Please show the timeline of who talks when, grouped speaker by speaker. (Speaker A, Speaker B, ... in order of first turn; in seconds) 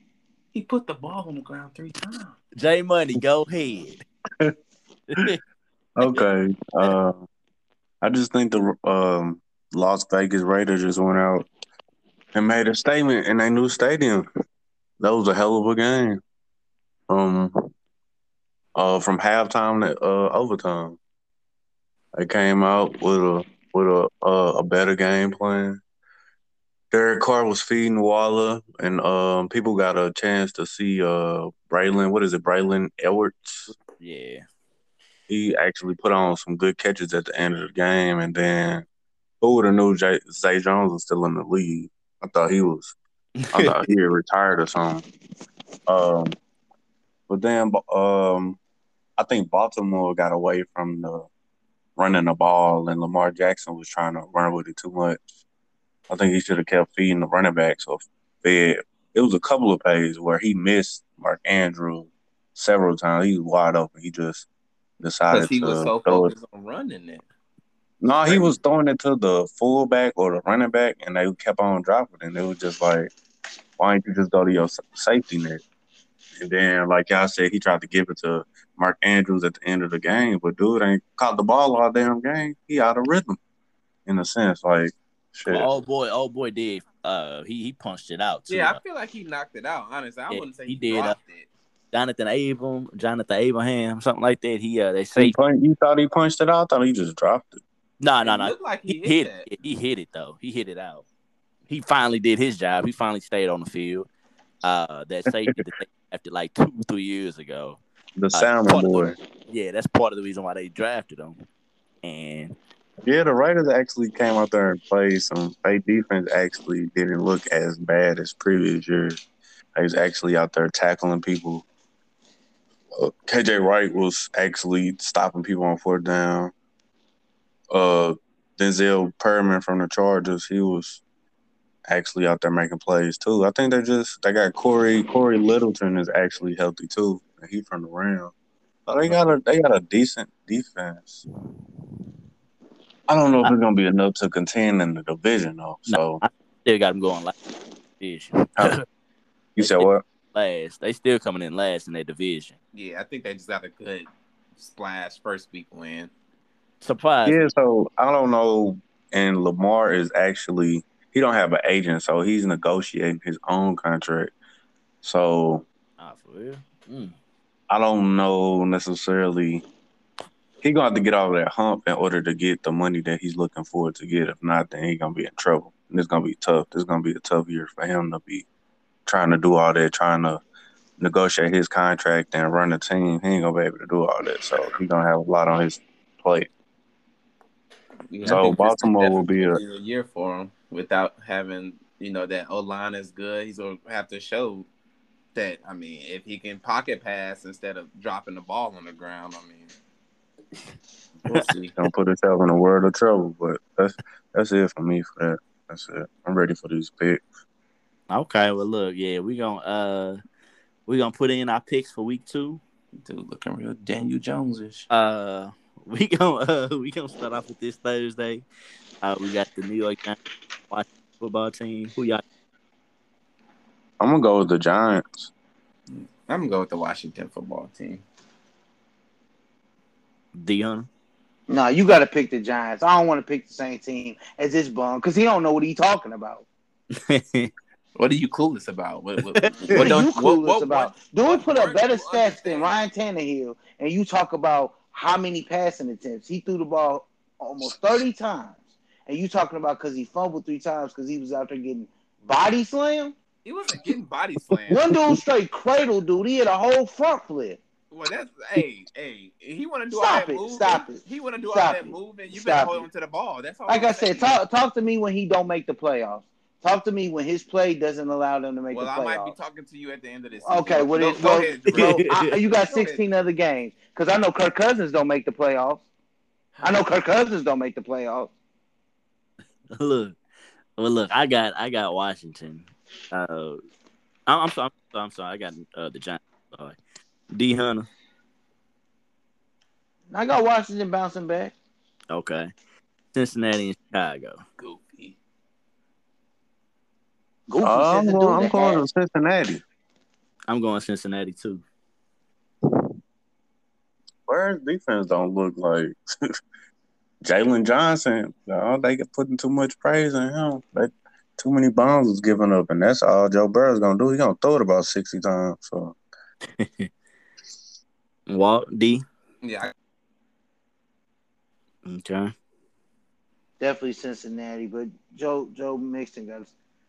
Speaker A: 0.5-2.3, 65.3-67.3, 68.2-68.5, 88.5-91.5, 98.2-99.5, 152.7-156.1, 188.1-194.7, 195.3-199.7, 201.3-201.7, 213.0-214.9, 225.9-228.0, 237.9-242.7, 253.4-254.8, 257.9-264.3, 268.7-273.0, 276.5-276.8, 294.6-295.1, 319.4-319.7
Speaker B: 2.6-4.0, 5.1-5.4, 34.0-34.4, 43.4-43.8, 85.5-88.8, 90.3-91.2, 91.9-95.3, 98.0-101.0, 101.7-104.1, 104.6-107.8, 108.3-111.4, 112.0-112.5, 139.0-139.4, 145.9-147.3, 148.0-148.8, 149.6-152.6, 156.8-157.5, 166.0-167.1, 208.1-210.2, 210.8-212.6, 214.9-218.4, 219.0-222.2, 230.3-230.9, 236.9-237.5, 239.3-239.8, 271.7-272.3, 279.7-280.2, 280.8-283.6, 284.3-286.8, 287.3-287.9, 292.1-292.5, 293.1-294.4, 300.5-301.6, 316.6-316.9, 318.3-319.0, 321.8-322.3
Speaker C: 6.0-7.2, 8.0-11.5, 12.3-14.3, 15.0-16.2, 17.1-17.7, 18.8-21.0, 22.1-25.8, 26.9-33.7, 35.3-38.8, 39.4-42.9, 43.5-45.0, 45.9-46.4, 47.3-48.6, 49.2-51.3, 52.0-55.2, 56.1-64.5, 65.0-66.3, 68.0-73.1, 73.8-75.6, 76.4-83.4, 84.0-85.7, 95.2-97.6, 108.2-109.2, 113.0-119.2, 119.8-121.6, 122.9-126.5, 127.7-131.0, 131.9-138.3, 138.8-141.2, 143.1-146.2, 149.6-150.0, 157.2-164.3, 165.0-165.6, 167.7-169.6, 170.6-178.4, 179.1-180.4, 181.0-186.5, 188.2-189.6, 201.3-207.2, 224.0-225.3, 297.6-299.6, 304.3-306.0, 307.2-315.9
Speaker D: 231.5-236.4, 239.7-253.1, 254.7-257.6, 259.9-262.9, 263.7-269.3, 270.4-275.8, 276.6-278.3, 290.1-291.5, 297.5-298.8, 323.6-326.5